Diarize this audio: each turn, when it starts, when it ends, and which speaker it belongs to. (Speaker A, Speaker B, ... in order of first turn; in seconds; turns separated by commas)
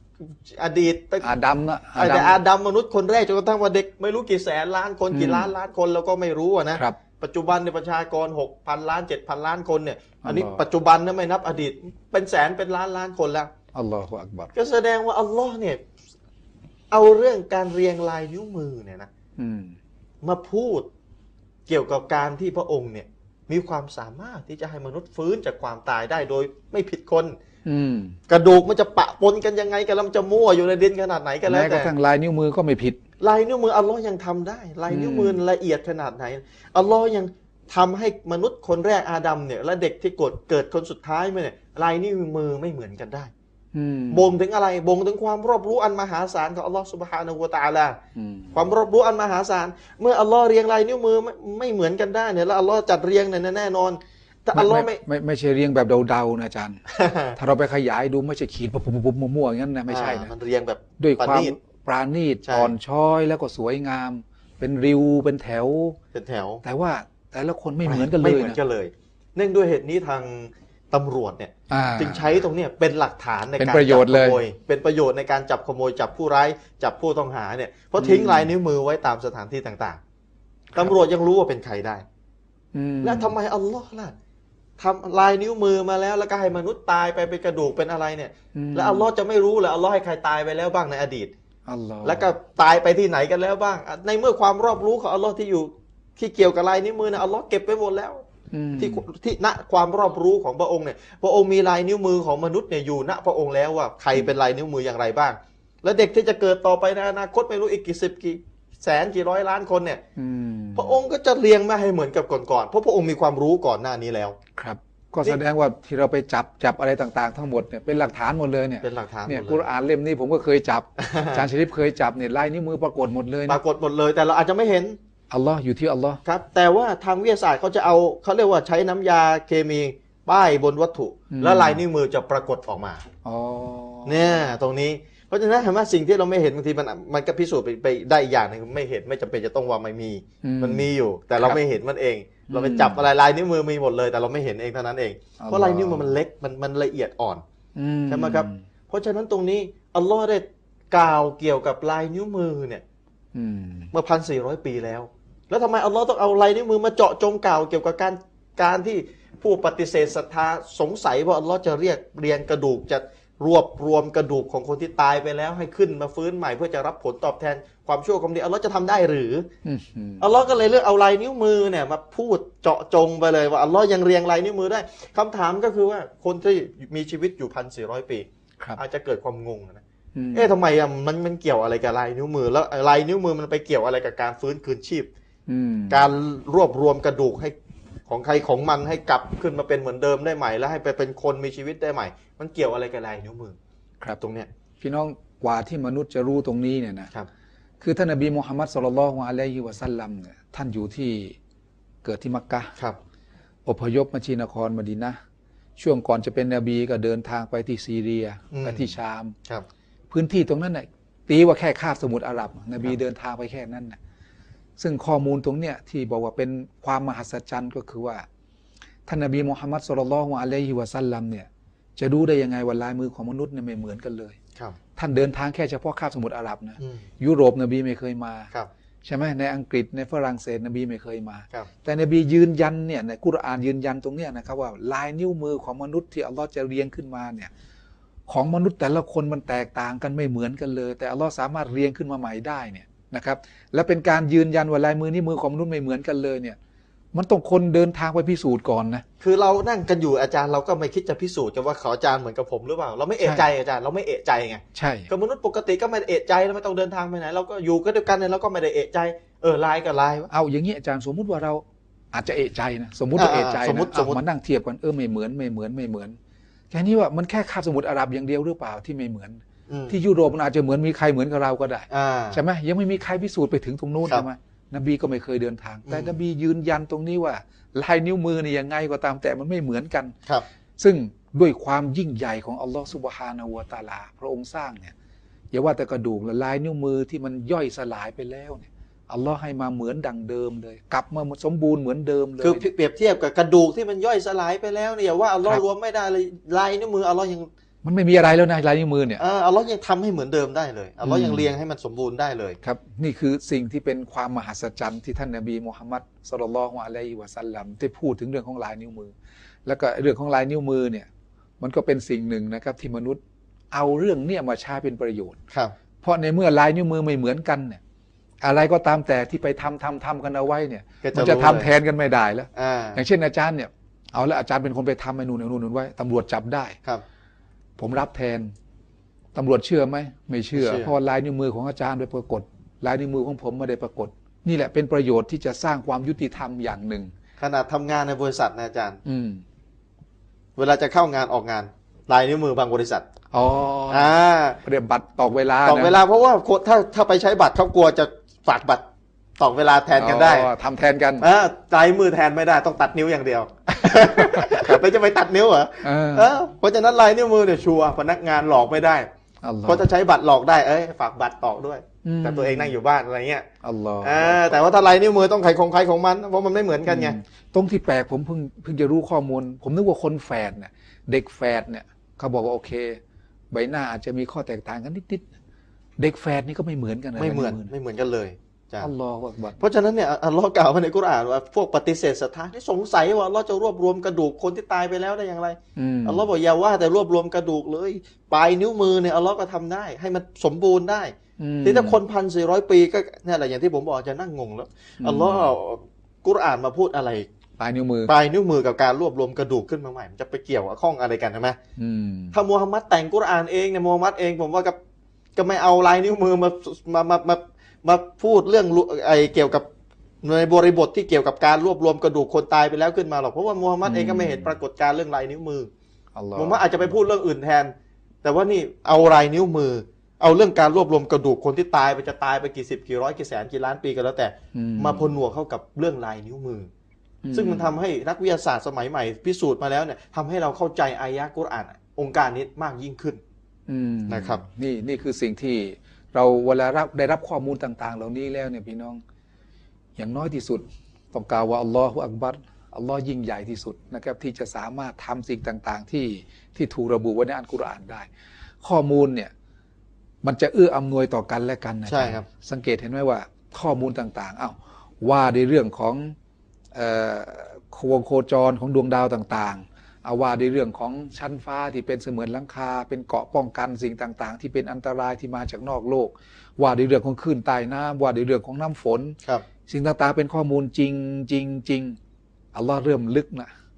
Speaker A: 0.2-1.3, Speaker B: 1.2-2.4, Speaker A: 1.9-13.5, Speaker B: 5.1-5.5, Speaker B: 6.7-7.0, Speaker B: 10.2-10.6, Speaker B: 13.7-14.5, Speaker A: 14.5-15.8, Speaker A: 16.9-19.1, Speaker B: 19.4-19.8, Speaker A: 20.2-20.9, Speaker A: 21.7-27.4, Speaker B: 27.6-28.2, Speaker A: 28.3-31.9, Speaker B: 31.4-33.0, Speaker A: 33.2-43.3, Speaker B: 34.9-35.4, Speaker B: 43.7-44.3, Speaker A: 44.1-48.0, Speaker B: 48.1-48.5, Speaker A: 48.5-55.0, Speaker B: 54.5-56.8, Speaker A: 56.9-57.4, Speaker B: 57.3-60.3, Speaker A: 59.9-61.5, Speaker B: 61.0-66.0, Speaker A: 62.4-62.7, Speaker A: 66.1-66.6, Speaker B: 66.6-68.6, Speaker A: 67.8-80.0, Speaker B: 71.7-72.3, Speaker B: 73.6-74.4, Speaker B: 78.0-78.5, Speaker A: 80.7-82.0, Speaker B: 82.7-83.3, Speaker A: 83.0-84.1, Speaker A: 84.8-91.3, Speaker B: 88.5-89.1, Speaker B: 91.7-92.3, Speaker A: 92.0-98.2, Speaker B: 98.5-99.0, Speaker A: 98.8-110.0, Speaker B: 110.2-111.0, Speaker A: 110.8-114.4, Speaker B: 114.5-123.6, Speaker A: 118.8-119.6, Speaker A: 121.0-121.4, Speaker A: 123.5-125.0, Speaker B: 125.3-126.2, Speaker A: 126.2-133.0, Speaker B: 131.3-131.8, Speaker B: 133.2-134.4, Speaker A: 134.0-147.4, Speaker B: 140.4-140.8, Speaker B: 142.5-143.1, Speaker B: 145.4-146.1, Speaker B: 147.8-148.6, Speaker A: 148.1-152.8, Speaker B: 153.3-153.9, Speaker A: 153.9-169.5, Speaker B: 169.6-170.3, Speaker A: 170.2-179.8, Speaker B: 180.1-180.5, Speaker A: 180.3-185.1, Speaker B: 185.5-186.1, Speaker A: 185.9-187.5, Speaker A: 188.1-193.6, Speaker A: 194.2-194.5, Speaker B: 194.8-197.1, Speaker B: 197.8-201.4, Speaker B: 202.0-202.7, Speaker B: 203.7-205.2, Speaker B: 205.8-209.3, Speaker A: 208.5-208.9, Speaker B: 210.1-214.0, Speaker B: 214.8-218.2, Speaker B: 219.1-224.3, Speaker B: 224.9-228.5, Speaker B: 229.0-237.5, Speaker B: 238.3-246.6, Speaker B: 247.1-249.0, Speaker A: 249.2-260.3, Speaker B: 253.2-253.5, Speaker B: 254.7-255.1, Speaker B: 260.3-266.2, Speaker A: 263.1-264.2, Speaker B: 266.7-280.1, Speaker A: 269.7-270.0, Speaker A: 271.9-272.4, Speaker A: 275.9-276.1, Speaker B: 280.8-284.9, Speaker B: 285.5-292.6, Speaker A: 292.4-297.5, Speaker B: 297.8-299.2, Speaker A: 299.2-302.6, Speaker B: 301.0-301.5, Speaker B: 302.6-309.1, Speaker B: 309.6-311.1, Speaker B: 311.6-313.2, Speaker B: 313.7-315.4, Speaker B: 316.0-317.8, Speaker B: 318.4-326.8, Speaker A: 321.0-321.7, Speaker A: 322.5-323.0, Speaker B: 327.8-328.5, Speaker B: 329.3-337.1, Speaker A: 330.5-330.9, Speaker A: 337.4-339.0, Speaker B: 339.0-339.4, Speaker A: 340.6-343.1, Speaker B: 343.3-346.0, Speaker A: 343.9-344.6, Speaker A: 345.6-348.8, Speaker A: 349.4-350.5, Speaker B: 349.9-351.3, Speaker A: 351.2-359.1, Speaker B: 354.4-354.6, Speaker B: 355.8-356.3, Speaker B: 359.4-359.8, Speaker A: 359.6-363.5, Speaker B: 362.0-362.8, Speaker B: 363.6-364.6, Speaker A: 364.0-367.2, Speaker B: 366.9-373.0, Speaker B: 373.5-375.3, Speaker B: 376.0-377.7, Speaker A: 377.1-378.9, Speaker B: 378.8-379.6, Speaker A: 379.6-397.3, Speaker B: 385.8-386.2, Speaker B: 391.4-392.0, Speaker B: 395.0-395.5, Speaker B: 397.6-398.1, Speaker A: 398.1-401.6, Speaker B: 401.8-402.4, Speaker A: 402.3-404.8, Speaker A: 405.4-409.6, Speaker A: 410.2-415.7, Speaker B: 413.8-414.5, Speaker B: 416.1-417.0, Speaker A: 416.4-426.7, Speaker B: 424.5-425.1, Speaker B: 427.2-427.7, Speaker A: 427.3-433.2, Speaker B: 433.7-439.0, Speaker A: 434.1-434.4, Speaker B: 439.9-448.1, Speaker B: 448.6-449.3, Speaker B: 450.2-456.1, Speaker A: 451.9-452.2, Speaker B: 456.7-472.0, Speaker B: 472.5-473.5